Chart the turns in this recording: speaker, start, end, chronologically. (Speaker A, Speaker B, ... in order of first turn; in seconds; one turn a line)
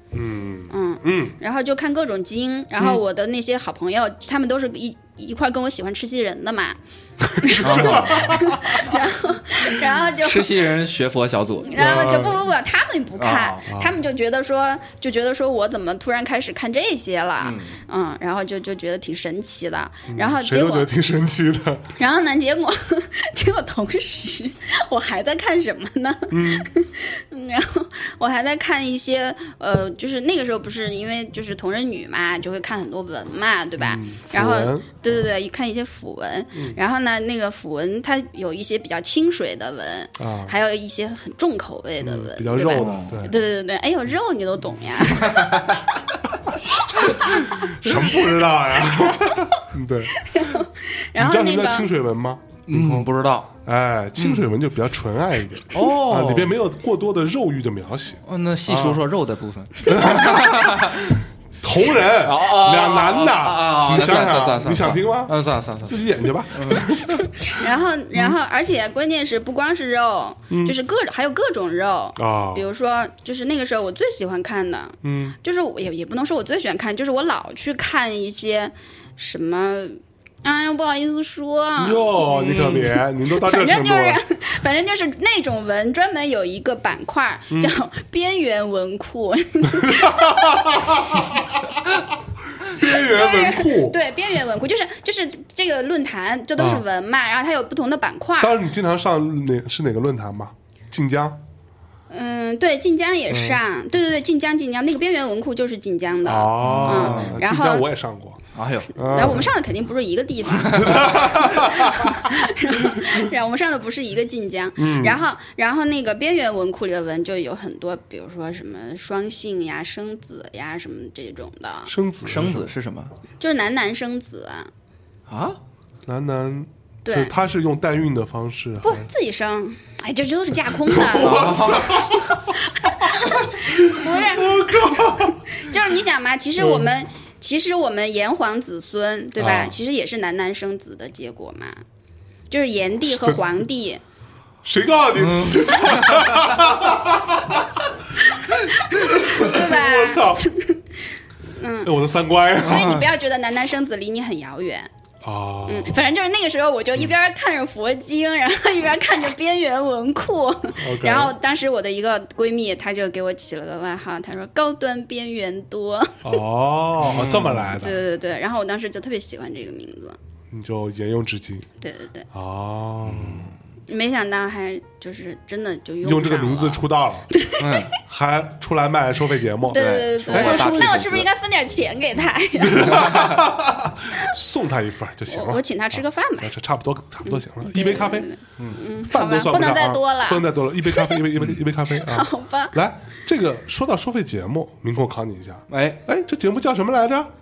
Speaker A: 0.1-1.3
Speaker B: 0.7-6.8
Speaker A: 7.3-8.9
Speaker B: 7.4-10.7
Speaker C: 7.6-8.4
Speaker C: 10.1-12.3
Speaker B: 11.6-20.9
Speaker A: 11.8-12.4
Speaker C: 13.2-13.7
Speaker A: 13.7-14.0
Speaker C: 17.4-17.8
Speaker A: 20.1-21.9
Speaker B: 22.0-45.9
Speaker A: 26.3-26.7
Speaker A: 33.8-34.8
Speaker A: 40.2-40.5
Speaker A: 42.0-43.3
Speaker C: 42.6-43.2
Speaker C: 45.2-45.8
Speaker B: 46.5-47.7
Speaker A: 47.5-50.2
Speaker B: 49.2-49.6
Speaker B: 50.1-51.9
Speaker A: 51.1-53.1
Speaker C: 52.7-53.5
Speaker A: 53.6-59.0
Speaker C: 54.2-54.5
Speaker C: 55.7-56.5
Speaker C: 58.2-61.2
Speaker A: 59.9-67.6
Speaker C: 62.1-66.0
Speaker C: 66.5-66.9
Speaker B: 67.0-82.2
Speaker A: 70.5-70.8
Speaker A: 72.2-72.7
Speaker A: 75.0-75.3
Speaker A: 81.8-84.2
Speaker C: 82.2-83.0
Speaker B: 83.3-91.2
Speaker A: 87.5-87.7
Speaker A: 89.7-94.0
Speaker B: 92.7-98.6
Speaker A: 96.6-96.8
Speaker A: 98.4-101.4
Speaker B: 102.1-107.8
Speaker A: 103.3-103.6
Speaker A: 106.2-108.4
Speaker C: 106.6-107.4
Speaker C: 108.5-109.5
Speaker A: 108.9-109.5
Speaker B: 109.1-121.9
Speaker C: 110.5-111.1
Speaker A: 110.7-112.3
Speaker A: 112.8-113.1
Speaker A: 114.8-115.2
Speaker A: 121.9-122.7
Speaker C: 122.2-123.1
Speaker B: 123.4-124.7
Speaker C: 125.3-125.6
Speaker A: 126.0-129.1
Speaker B: 127.0-127.3
Speaker B: 128.8-131.8
Speaker A: 130.9-135.7
Speaker C: 131.1-132.3
Speaker B: 132.5-141.8
Speaker A: 136.6-136.9
Speaker A: 139.4-139.8
Speaker B: 142.5-144.0
Speaker A: 143.1-143.4
Speaker A: 144.6-150.5
Speaker C: 145.2-146.6
Speaker B: 148.6-150.8
Speaker B: 151.5-151.9
Speaker A: 151.8-153.0
Speaker B: 152.6-154.9
Speaker A: 155.2-156.1
Speaker B: 155.7-166.4
Speaker A: 160.8-161.3
Speaker A: 166.2-168.0
Speaker C: 167.0-167.7
Speaker B: 167.7-170.2
Speaker A: 170.5-171.7
Speaker B: 171.8-172.3
Speaker A: 172.3-173.5
Speaker C: 173.0-173.5
Speaker B: 173.9-177.9
Speaker A: 176.0-177.3
Speaker C: 177.6-178.0
Speaker A: 178.0-181.2
Speaker B: 179.7-183.5
Speaker C: 179.7-181.3
Speaker A: 182.6-197.3
Speaker B: 185.3-186.5
Speaker B: 187.2-191.2
Speaker B: 191.9-192.8
Speaker C: 195.7-196.0